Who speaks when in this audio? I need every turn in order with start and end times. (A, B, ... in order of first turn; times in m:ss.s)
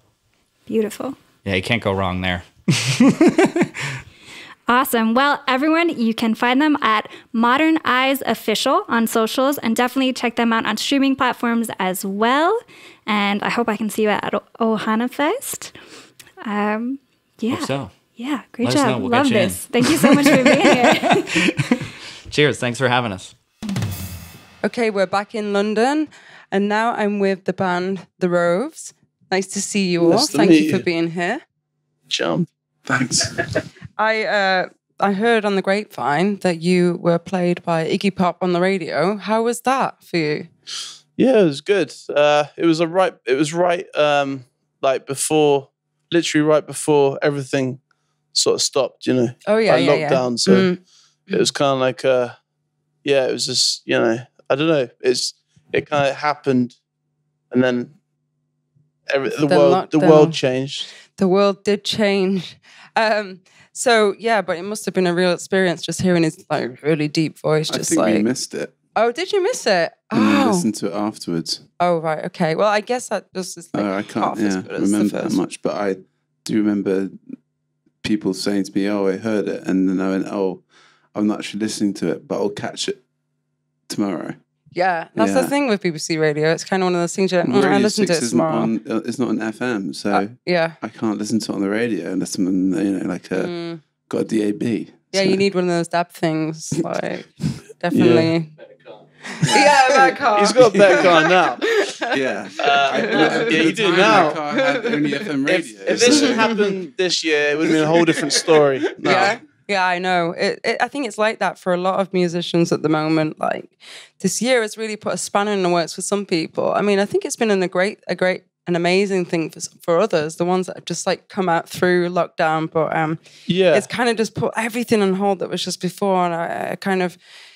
0:00.7-0:01.2 A
0:01.4-0:03.7 B
0:04.7-0:15.7 A
0:16.4-0:21.5 A
0:17.5-0:17.9 B
0:18.6-0:21.6 B
0:22.3-0:23.3 B
0:24.6-0:31.4 C
0:30.0-0:30.8 D
0:32.1-0:32.5 D
0:32.9-0:33.2 E
0:34.0-0:40.5 C
0:41.2-0:47.8 D
0:48.3-0:50.7 D
0:49.4-0:50.8 C
0:51.3-0:52.4 D
0:53.0-0:56.7 D
0:57.5-0:57.9 D
0:59.1-1:00.9 D
0:59.4-1:00.4 C
1:01.0-1:08.3 C
1:07.7-1:08.7 E
1:09.0-1:10.7 C
1:10.1-1:11.6 E
1:11.8-1:15.4 C
1:13.7-1:17.4 E
1:18.0-1:23.0 E
1:23.9-1:24.4 E
1:24.7-1:28.7 C
1:25.2-1:25.5 E
1:27.4-1:35.4 E
1:30.1-1:30.8 C
1:33.3-1:33.8 C
1:35.1-1:38.5 C
1:37.9-1:38.3 D
1:39.3-1:45.2 C
1:39.6-1:41.6 D
1:42.1-1:46.8 E
1:42.6-1:44.4 D
1:45.4-1:49.4 D
1:46.0-1:46.6 C
1:49.0-2:07.2 C
2:03.5-2:03.9 D